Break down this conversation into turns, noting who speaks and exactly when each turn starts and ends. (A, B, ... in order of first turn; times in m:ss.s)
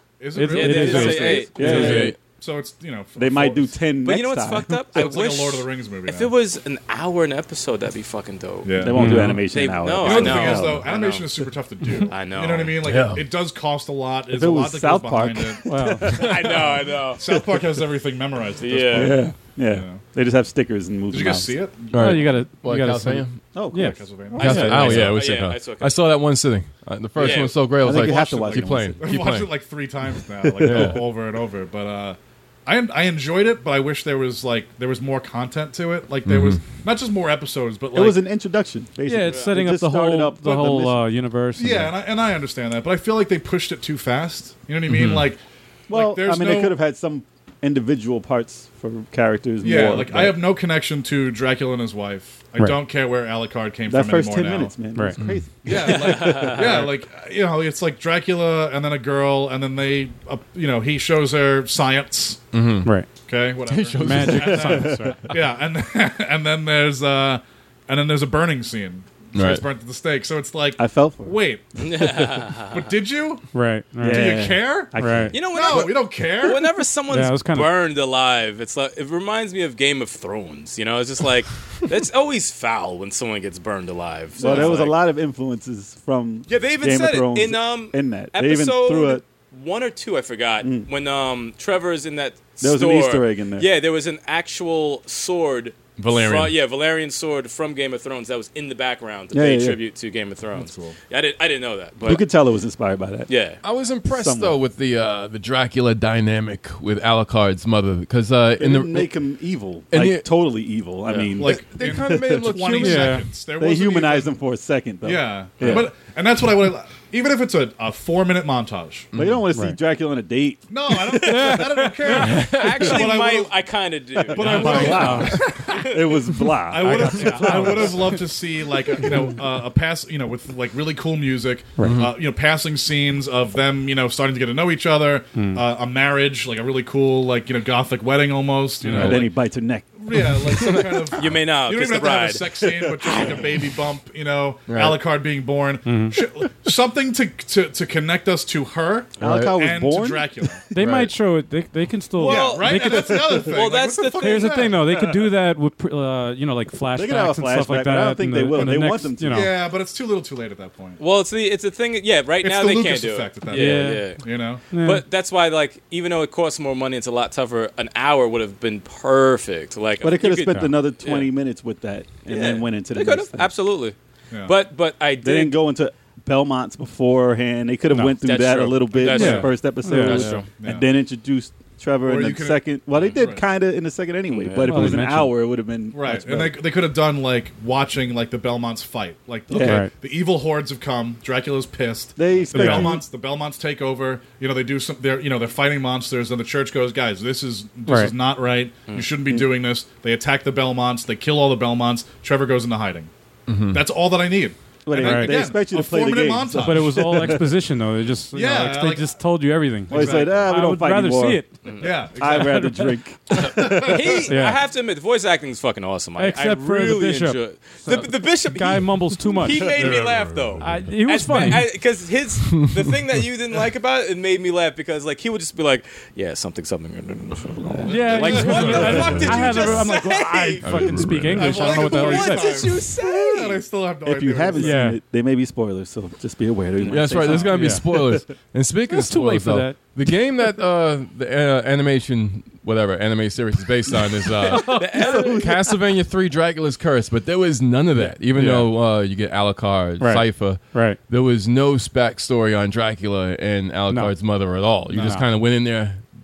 0:00.2-0:03.8 A
0:00.3-0:02.1 B
0:00.4-0:01.9 C
0:01.1-0:02.1 D
0:01.5-0:02.2 E
0:03.2-0:04.7 D
0:04.0-0:08.9 C
0:04.9-0:06.3 A
0:08.6-0:09.4 A
0:08.7-0:10.9 D
0:08.9-0:09.4 B
0:09.4-0:11.4 C
0:10.0-0:20.0 A
0:12.1-0:12.8 C
0:12.8-0:13.3 E
0:14.3-0:17.6 D
0:15.6-0:16.2 B
0:16.1-0:17.2 C
0:18.6-0:19.2 C
0:18.9-0:21.6 D
0:21.1-0:22.3 A
0:21.9-0:23.4 E
0:21.9-0:25.0 B
0:23.5-0:25.1 D
0:23.8-0:25.2 A
0:24.4-0:29.6 E
0:24.8-0:26.0 C
0:27.2-0:27.6 C
0:27.2-0:27.6 A
0:27.7-0:29.0 D
0:29.0-0:38.2 A
0:30.4-0:31.0 D
0:30.6-0:31.1 E
0:36.2-0:36.7 E
0:37.9-0:41.0 D
0:39.0-0:41.9 B
0:41.6-0:46.8 A
0:44.9-0:45.2 B
0:45.9-0:50.4 D
0:49.6-0:54.7 A
0:53.9-0:56.9 D
0:54.9-0:55.2 B
0:55.2-0:55.5 E
0:55.6-1:02.5 A
0:55.9-0:56.7 C
1:02.5-1:02.9 E
1:03.2-1:13.5 A
1:03.6-1:05.0 E
1:04.0-1:05.3 B
1:04.9-1:05.1 D
1:09.3-1:09.6 E
1:10.8-1:11.4 D
1:11.8-1:12.9 C
1:13.5-1:15.3 B
1:14.0-1:15.9 D
1:14.0-1:16.7 A
1:15.3-1:24.9 C
1:17.1-1:17.7 B
1:24.4-1:29.2 D
1:24.4-1:24.9 A
1:26.5-1:42.2 C
1:30.6-1:30.9 D
1:32.6-1:33.7 D
1:36.0-1:36.6 E
1:39.3-1:39.8 D
1:40.6-1:41.0 A
1:42.0-1:43.3 D
1:43.3-1:43.6 C
1:43.6-1:49.1 E
1:44.1-1:44.6 D
1:48.6-1:51.6 D
1:49.9-1:50.3 E
1:51.1-1:51.3 C
1:51.4-1:54.3 A
1:51.4-1:53.2 E
1:52.8-1:53.2 B
1:53.6-1:55.9 D
1:55.0-1:59.2 A
1:59.1-1:59.4 E
1:59.1-2:02.2 D
1:59.5-1:59.8 B
2:00.7-2:03.6 A
2:01.2-2:01.7 B
2:02.2-2:06.1 C
2:02.2-2:02.9 E
2:04.3-2:05.8 A
2:04.3-2:08.1 D
2:04.4-2:05.4 B
2:06.6-2:19.3 A
2:06.8-2:08.2 B
2:11.8-2:12.0 B
2:11.8-2:12.2 E
2:15.3-2:15.6 B
2:18.8-2:19.2 B
2:18.9-2:19.2 E
2:18.9-2:19.9 D
2:20.0-2:30.7 A
2:20.2-2:21.2 E
2:21.1-2:23.4 C
2:24.7-2:25.0 E
2:25.8-2:26.2 B
2:29.2-2:29.6 E
2:29.2-2:30.4 D
2:30.7-2:33.6 B
2:30.7-2:31.1 E
2:32.2-2:34.5 C
2:32.2-2:34.9 A
2:34.2-2:39.5 B
2:36.9-2:39.5 D
2:39.3-2:41.0 A
2:41.0-2:51.3 C
2:42.4-2:44.6 A
2:43.5-2:44.1 B
2:44.7-2:45.0 B
2:50.0-2:53.6 D
2:50.5-2:50.7 B
2:52.3-2:55.6 C
2:55.2-3:06.6 D
2:58.2-3:00.3 C
2:59.1-3:00.4 B
2:59.1-3:00.8 A
3:02.0-3:03.4 A
3:04.3-3:04.9 C
3:04.6-3:05.4 B
3:05.9-3:23.1 A
3:09.5-3:09.9 D
3:09.6-3:09.9 B
3:12.2-3:13.1 D
3:12.5-3:12.9 B
3:17.9-3:18.1 B
3:19.3-3:19.5 D
3:23.5-3:23.8 E
3:23.7-3:27.4 A
3:24.8-3:27.5 D
3:25.0-3:25.4 B
3:26.6-3:31.5 B
3:28.3-3:29.1 A
3:29.9-3:30.6 A
3:29.9-3:31.4 D
3:31.6-3:31.9 C
3:31.8-3:34.3 A
3:32.2-3:34.2 D
3:33.6-3:53.6 C
3:34.3-3:34.6 B
3:36.2-3:39.7 B
3:39.7-3:40.8 A
3:40.6-3:41.7 B
3:47.8-3:49.7 A
3:47.8-3:52.6 B
3:48.9-3:49.4 E
3:50.6-3:51.5 E
3:51.2-3:54.8 A
3:54.0-3:58.2 D
3:54.6-3:55.0 B
3:56.9-4:16.0 E
3:57.2-3:57.9 B
3:58.9-3:59.8 B
4:04.4-4:04.9 B
4:04.5-4:05.8 D
4:04.6-4:05.5 C
4:08.1-4:08.7 B
4:10.0-4:11.0 B
4:13.9-4:14.2 B
4:14.9-4:15.3 B